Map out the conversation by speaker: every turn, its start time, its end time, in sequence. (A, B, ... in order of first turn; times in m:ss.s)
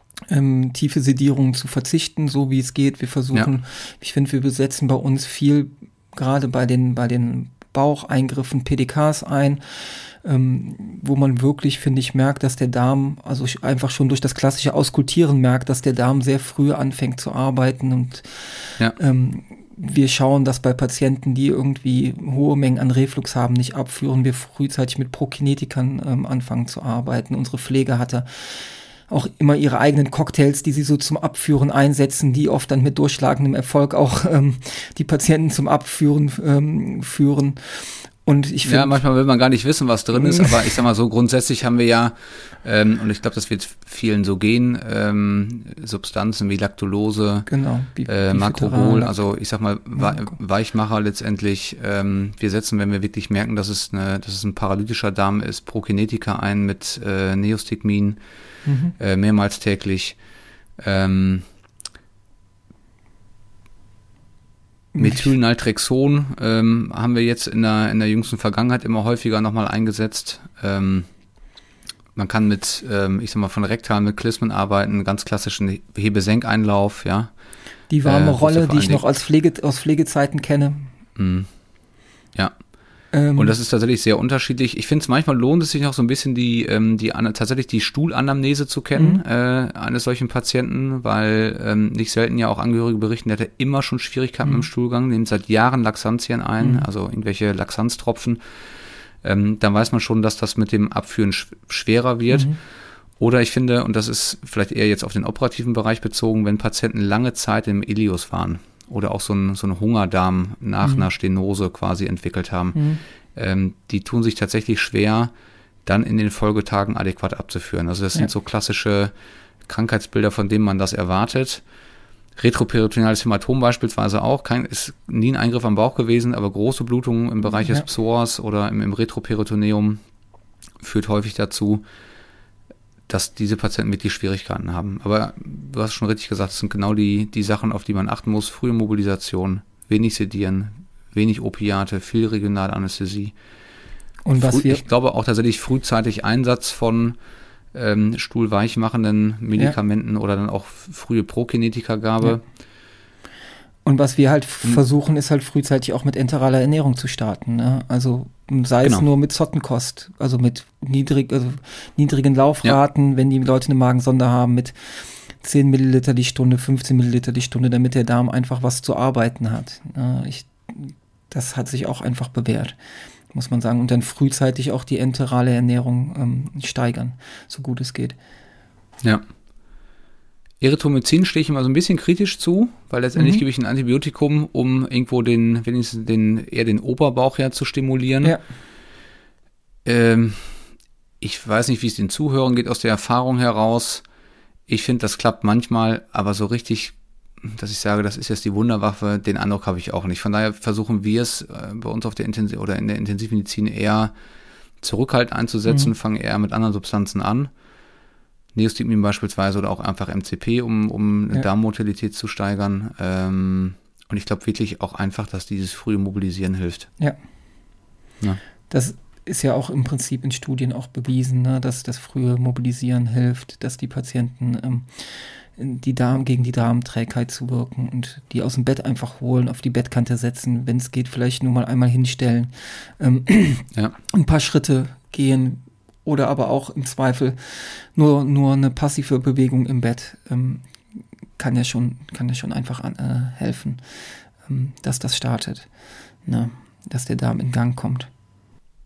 0:00.3-0:18.4 A
0:19.0-0:39.0 A
0:38.6-0:47.5 B
0:40.1-0:40.7 A
0:47.5-0:49.2 A
0:48.1-0:58.2 B
0:50.0-0:50.3 A
0:58.7-0:59.0 A
0:59.0-1:00.2 B
1:00.8-1:01.4 B
1:05.0-1:05.3 A
1:05.0-1:11.1 B
1:12.2-1:17.3 B
1:17.9-1:20.9 A
1:18.0-1:19.0 B
1:21.2-1:21.5 B
1:23.1-1:23.6 A
1:23.4-1:38.4 B
1:29.0-1:29.2 A
1:39.2-1:42.6 B
1:42.3-1:42.6 A
1:43.2-1:52.8 B
1:52.8-1:53.0 A
1:53.4-1:55.3 B
1:55.8-1:59.1 B
1:59.7-2:01.6 B
2:02.4-2:10.0 B
2:10.8-2:11.8 B
2:13.1-2:23.3 B
2:24.2-2:24.8 A
2:24.4-2:27.2 B
2:27.7-2:32.4 B
2:33.8-2:44.8 A
2:45.4-2:52.7 A
2:53.3-2:58.2 A
3:00.6-3:08.4 B
3:03.2-3:03.4 A
3:09.8-3:10.6 B
3:11.2-3:14.0 B
3:14.7-3:24.1 B
3:24.8-3:27.5 B
3:28.5-3:36.9 B
3:38.7-4:03.8 A
4:04.4-4:05.7 A
4:06.3-4:08.1 A